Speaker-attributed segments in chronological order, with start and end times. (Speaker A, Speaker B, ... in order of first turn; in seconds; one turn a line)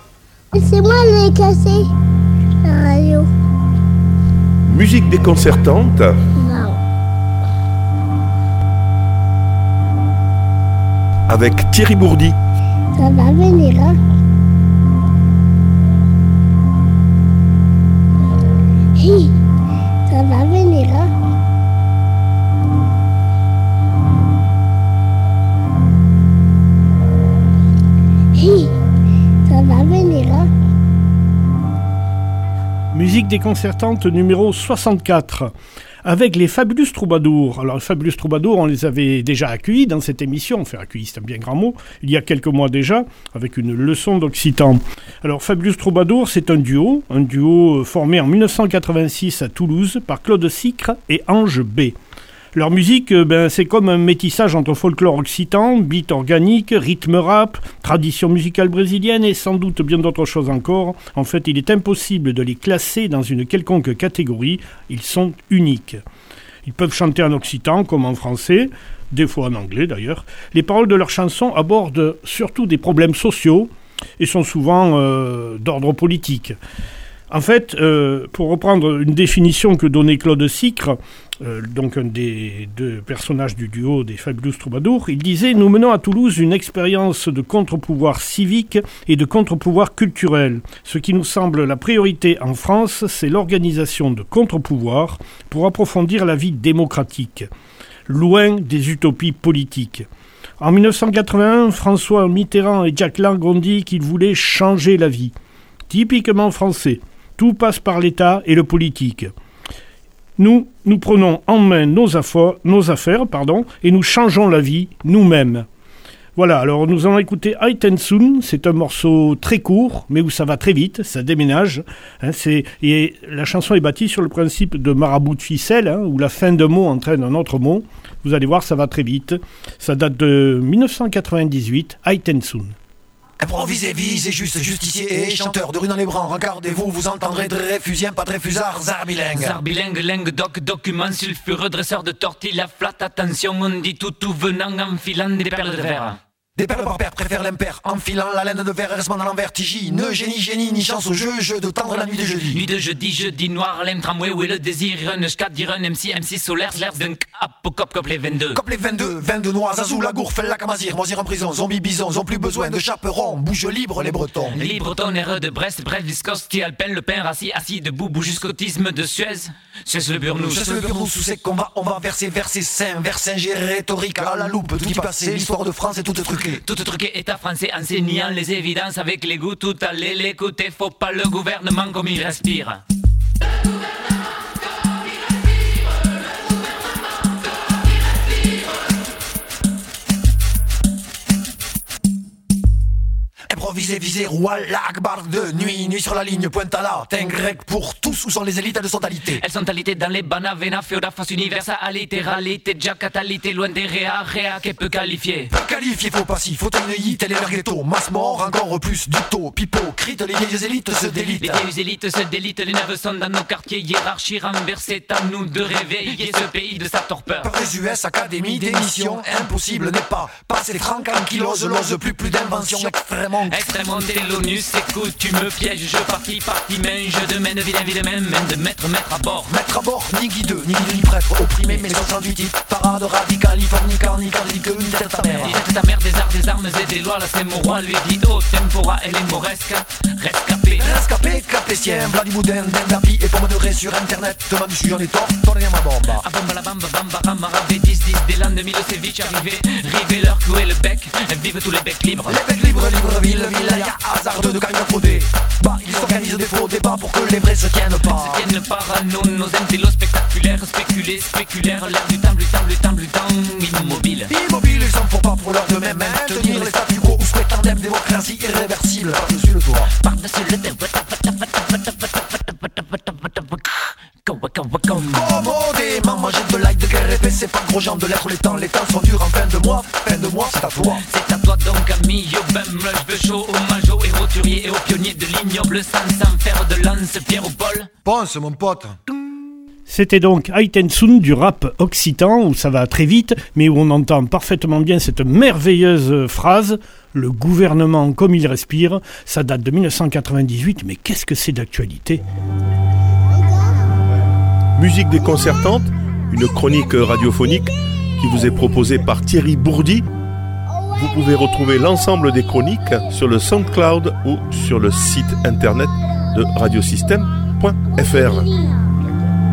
Speaker A: 0.5-1.9
Speaker A: 2.6-3.3
Speaker B: 4.7-6.1
Speaker A: 6.4-6.8
Speaker B: 11.3-12.3
Speaker A: 12.9-14.0
Speaker A: 19.0-19.3
Speaker A: 20.1-21.1
Speaker A: 28.4-28.7
Speaker A: 29.5-30.5
Speaker C: 32.9-35.5
Speaker C: 36.0-52.0
Speaker C: 52.5-66.0
Speaker C: 66.7-76.6
Speaker C: 77.3-97.5
Speaker C: 98.1-100.1
Speaker C: 100.6-105.3
Speaker C: 105.9-109.3
Speaker C: 110.4-115.7
Speaker C: 116.4-132.8
Speaker D: 133.4-139.6
Speaker E: 139.3-146.2
Speaker D: 146.6-152.6
Speaker E: 152.5-158.6
Speaker D: 158.5-164.7
Speaker E: 164.5-170.9
Speaker D: 170.4-176.6
Speaker E: 176.6-182.8
Speaker D: 193.5-199.4
Speaker E: 199.3-205.5
Speaker D: 205.5-211.7
Speaker E: 211.4-217.5
Speaker D: 217.4-223.7
Speaker E: 223.5-229.5
Speaker D: 229.4-235.6
Speaker E: 235.4-240.9
Speaker D: 240.7-246.2
Speaker E: 246.1-252.4
Speaker D: 252.3-258.4
Speaker E: 258.0-264.3
Speaker D: 264.3-269.9
Speaker E: 266.3-266.7
Speaker E: 269.9-275.4
Speaker D: 275.0-281.0
Speaker E: 281.0-287.9
Speaker D: 288.1-289.0
Speaker C: 289.9-302.2
Speaker A: 303.4-303.8
Speaker B: 304.8-310.1
Speaker B: 310.9-318.5
Speaker A: 317.9-318.8